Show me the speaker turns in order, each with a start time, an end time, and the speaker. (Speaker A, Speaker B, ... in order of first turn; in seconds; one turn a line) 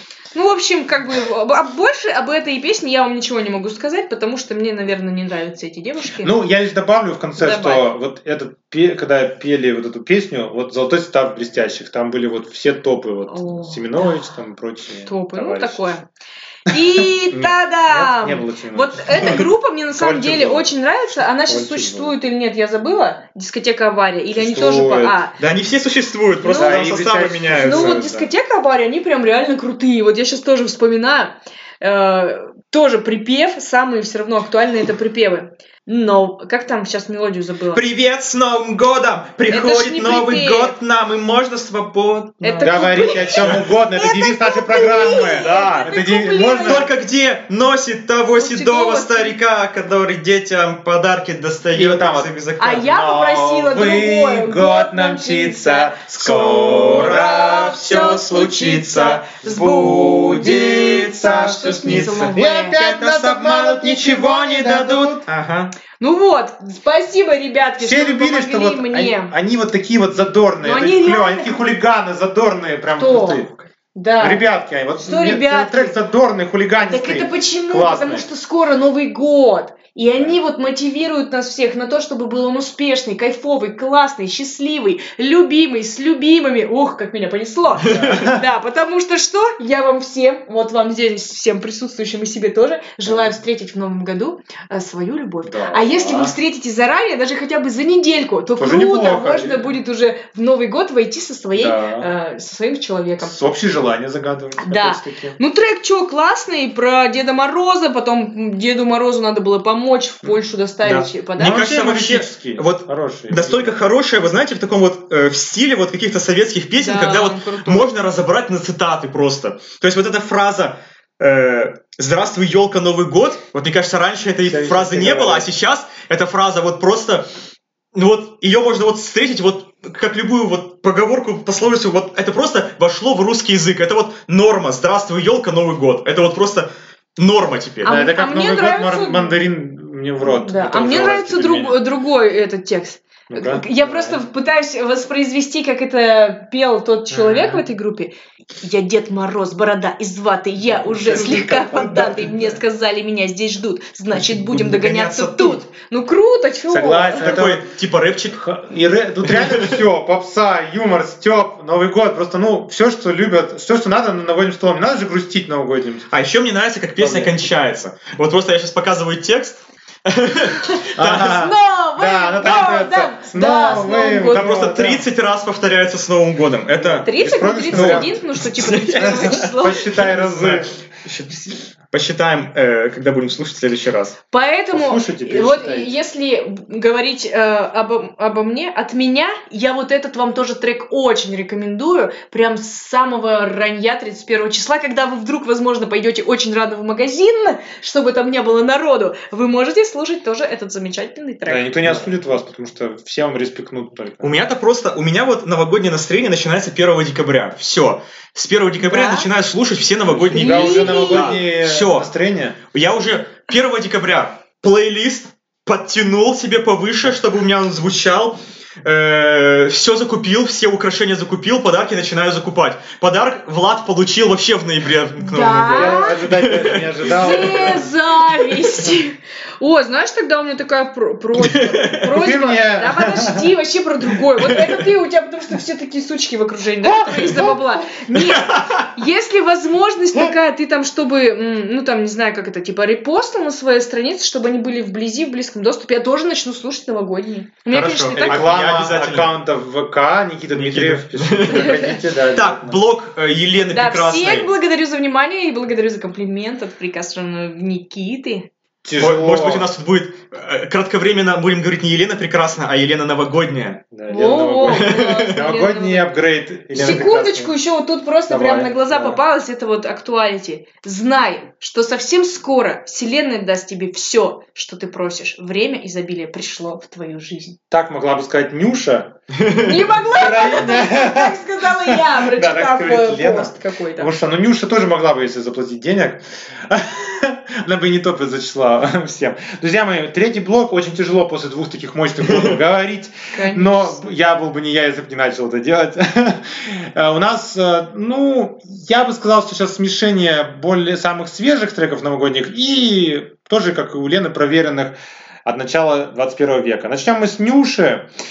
Speaker A: 0.3-6.4
Speaker B: 6.2-15.9
Speaker A: 7.4-7.9
Speaker A: 13.3-14.1
Speaker A: 15.0-16.0
Speaker A: 16.7-25.4
Speaker B: 16.7-20.7
Speaker B: 21.4-22.1
Speaker B: 24.3-25.2
Speaker C: 25.4-28.0
Speaker A: 26.4-26.9
Speaker B: 26.4-28.3
Speaker A: 27.5-37.8
Speaker C: 37.7-43.7
Speaker A: 39.5-40.7
Speaker A: 42.4-46.9
Speaker B: 42.6-46.9
Speaker C: 45.0-45.8
Speaker C: 46.6-52.9
Speaker A: 48.3-49.4
Speaker B: 51.7-57.4
Speaker A: 52.6-62.8
Speaker C: 56.1-65.7
Speaker B: 61.3-65.3
Speaker A: 66.0-69.3
Speaker B: 67.8-73.6
Speaker A: 70.6-71.6
Speaker A: 73.0-73.4
Speaker A: 73.9-74.4
Speaker B: 74.2-78.3
Speaker A: 75.0-76.0
Speaker A: 76.9-103.4
Speaker B: 87.8-88.4
Speaker C: 87.9-88.3
Speaker B: 93.0-93.3
Speaker B: 95.4-96.4
Speaker B: 98.6-99.7
Speaker B: 101.5-102.1
Speaker B: 103.2-105.4
Speaker A: 104.6-111.6
Speaker B: 110.8-113.8
Speaker C: 111.4-127.2
Speaker A: 116.8-117.9
Speaker B: 124.4-125.5
Speaker C: 127.9-137.9
Speaker A: 137.8-139.4
Speaker B: 137.8-141.8
Speaker A: 140.2-157.3
Speaker B: 143.3-144.2
Speaker B: 147.1-147.6
Speaker B: 150.6-152.6
Speaker C: 154.1-155.6
Speaker B: 156.7-157.7
Speaker C: 157.2-158.4
Speaker B: 158.3-166.1
Speaker C: 159.2-159.8
Speaker C: 166.1-171.5
Speaker B: 167.0-167.4
Speaker B: 170.9-175.1
Speaker A: 171.1-174.6
Speaker C: 174.2-177.1
Speaker B: 176.8-178.1
Speaker A: 176.8-180.0
Speaker C: 177.7-184.2
Speaker B: 178.9-180.7
Speaker A: 184.3-202.0
Speaker B: 184.7-185.9
Speaker B: 201.4-204.3
Speaker C: 204.2-212.1
Speaker A: 208.8-209.3
Speaker B: 210.0-212.6
Speaker A: 210.3-211.4
Speaker C: 212.7-227.7
Speaker A: 225.2-226.2
Speaker B: 225.7-227.9
Speaker A: 227.0-248.5
Speaker C: 231.4-232.1
Speaker B: 232.0-233.5
Speaker B: 236.8-237.8
Speaker C: 238.3-238.8
Speaker C: 247.7-249.3
Speaker B: 248.2-252.8
Speaker C: 250.5-254.5
Speaker A: 251.5-251.8
Speaker A: 253.7-258.5
Speaker B: 258.8-259.7
Speaker C: 259.0-263.8
Speaker B: 263.9-267.5
Speaker A: 264.1-266.1
Speaker C: 264.6-265.4
Speaker A: 266.7-277.6
Speaker C: 266.7-267.0
Speaker B: 268.3-269.2
Speaker B: 277.7-279.1
Speaker C: 279.4-279.7
Speaker A: 279.6-284.1
Speaker B: 280.0-308.1
Speaker C: 292.2-292.6
Speaker A: 293.3-294.0